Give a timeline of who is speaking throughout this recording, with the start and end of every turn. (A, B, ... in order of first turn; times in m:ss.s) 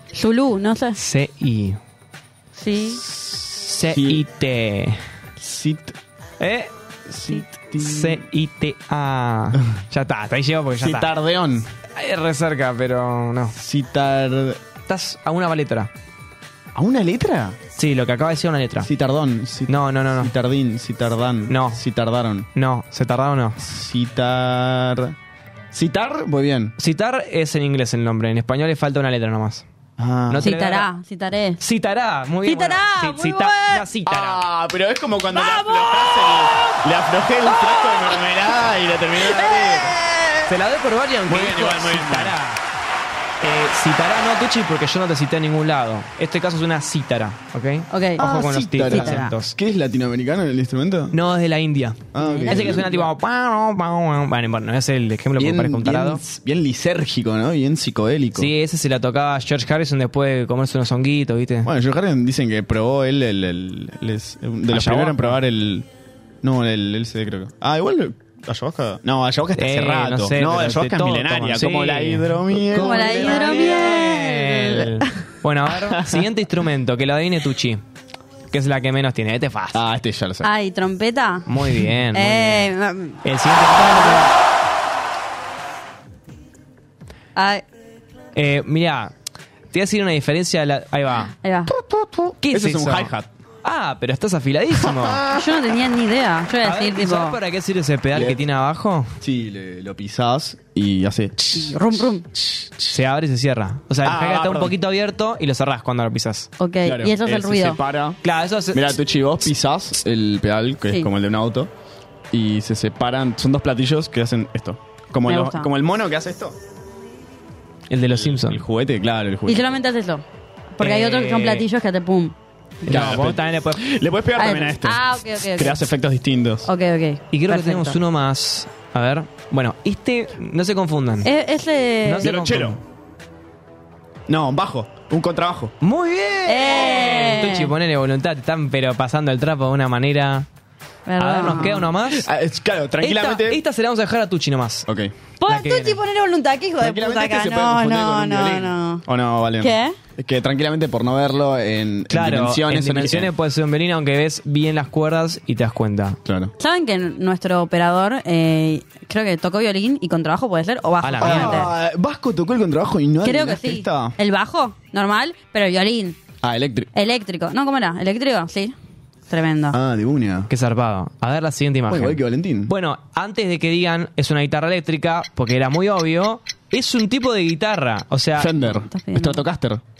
0:00.1-0:01.0 A
0:01.0-0:01.8 B
0:02.5-0:03.0 A
0:03.0-0:05.0 B
0:03.9-0:04.2 C
0:05.4-0:06.0 C
0:06.4-0:06.7 B
0:07.1-0:08.2 C
0:07.3-0:11.1 B
0:10.8-0:11.7 C
0:12.0-0:13.5 B
0:13.5-0:14.6 C
0:14.9-0:15.9 B
0:16.7-0:17.6 C
0:17.8-0:18.9 B
0:18.8-0:22.5 C
0:19.7-0:20.3 B
0:21.5-0:21.8 B
0:22.6-0:23.6 B
0:23.6-0:25.1 C
0:25.7-0:26.7 C
0:26.8-0:29.6 B
0:30.0-0:30.5 C
0:30.3-0:30.9 B
0:30.4-0:31.6 A
0:31.6-0:34.4 B
0:32.4-0:33.8 A
0:34.0-0:40.0 C
0:35.3-0:36.7 A
0:37.5-0:38.2 A
0:39.2-0:40.5 A
0:40.4-0:42.6 B
0:41.3-0:42.4 C
0:43.4-0:49.5 B
0:47.9-0:48.2 A
0:48.2-0:51.2 C
0:48.9-0:49.3 A
0:51.1-0:56.2 B
0:52.1-0:53.0 C
0:52.2-0:52.8 A
0:55.4-0:58.5 C
0:58.3-1:01.7 B
1:01.6-1:05.9 C
1:04.7-1:05.4 B
1:06.4-1:14.0 C
1:09.6-1:17.8 B
1:12.7-1:15.0 A
1:15.6-1:16.3 C
1:18.5-1:19.8 B
1:19.7-1:20.5 C
1:20.4-1:21.5 A
1:21.5-1:22.7 B
1:22.1-1:23.2 A
1:23.2-1:24.3 B
1:27.4-1:27.6 A
1:28.3-1:29.1 B
1:29.7-1:31.3 B
1:31.4-1:31.7 A
1:31.7-1:33.3 C
1:32.4-1:33.1 B
1:33.6-1:35.2 B
1:34.8-1:35.5 C
1:35.3-1:37.4 A
1:36.6-1:39.1 B
1:38.1-1:38.4 C
1:39.2-1:43.0 C
1:41.5-1:42.2 A
1:42.9-1:46.5 B
1:44.0-1:44.8 C
1:46.6-1:47.8 A
1:46.8-1:48.2 C
1:48.2-1:49.0 B
1:48.7-1:51.7 C
1:52.3-1:56.6 C
1:55.3-1:55.7 A
1:57.9-1:58.6 B
1:58.1-1:59.7 C
1:59.5-2:00.2 A
2:00.8-2:02.3 A
2:00.8-2:01.6 B
2:02.8-2:03.8 B
2:02.8-2:06.7 C
2:04.4-2:05.8 A
2:06.6-2:08.0 A
2:07.3-2:11.3 B
2:11.2-2:12.3 A
2:12.0-2:12.8 B
2:12.2-2:12.8 C
2:14.3-2:15.7 C
2:15.8-2:20.5 B
2:16.4-2:17.7 A
2:21.0-2:21.9 A
2:21.2-2:22.3 B
2:21.8-2:23.6 C
2:23.0-2:24.9 B
2:24.9-2:25.1 C
2:25.4-2:29.0 A
2:25.4-2:26.0 B
2:26.8-2:33.3 C
2:29.6-2:30.0 A
2:32.1-2:36.2 B
2:36.2-2:36.5 C
2:36.6-2:41.7 A
2:41.0-2:41.7 B
2:41.2-2:44.2 C
2:43.2-2:46.2 A
2:46.4-2:46.9 C
2:46.9-2:48.8 A
2:49.3-2:49.8 A
2:49.7-2:50.5 C
2:50.5-2:58.5 B
2:51.9-2:52.7 C
2:58.3-2:59.8 C
2:58.7-2:59.4 A